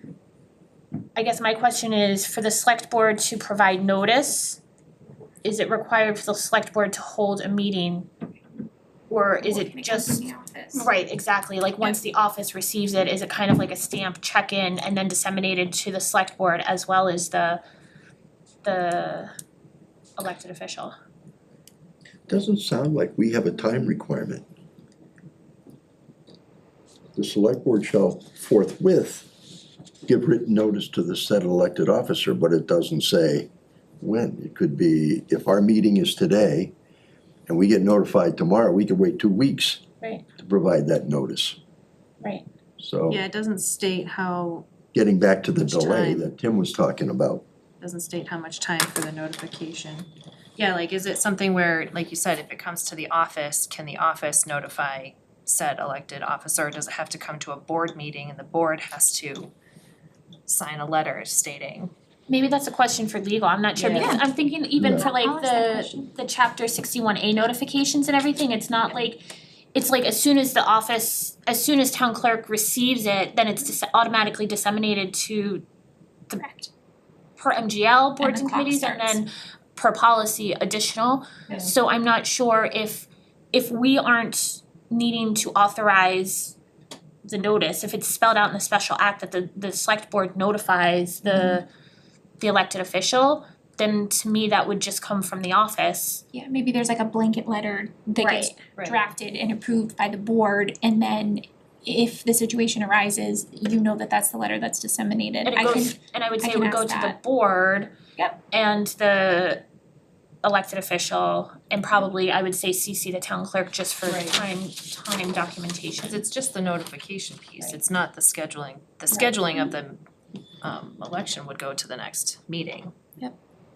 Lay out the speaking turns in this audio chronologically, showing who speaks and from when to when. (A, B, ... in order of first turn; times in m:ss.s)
0:01.2-0:04.6 A
0:05.4-0:08.1 A
0:09.1-0:17.6 A
0:09.4-0:10.9 B
0:18.6-0:19.3 A
0:20.2-0:20.9 A
0:22.3-0:24.4 C
0:27.2-0:29.3 C
0:30.1-0:33.5 C
0:34.0-0:36.7 C
0:37.5-0:39.8 C
0:40.4-0:41.6 C
0:42.8-0:43.2 C
0:43.1-0:44.7 D
0:44.9-0:47.4 C
0:45.6-0:46.3 D
0:47.8-0:59.5 D
1:00.5-1:01.9 D
1:02.3-1:09.2 A
1:03.8-1:04.2 D
1:04.0-1:04.2 B
1:04.8-1:05.1 C
1:04.8-1:06.1 B
1:09.8-1:15.6 A
1:16.4-1:16.7 B
1:17.4-1:26.6 A
1:18.2-1:19.2 B
1:27.3-1:31.7 A
1:32.4-1:36.2 A
1:36.3-1:47.2 B
1:38.2-1:38.6 A
1:45.4-1:48.0 A
1:48.5-1:49.6 A
1:50.4-1:56.2 A
1:54.1-1:54.4 D
1:56.0-2:00.0 D
2:00.6-2:02.9 D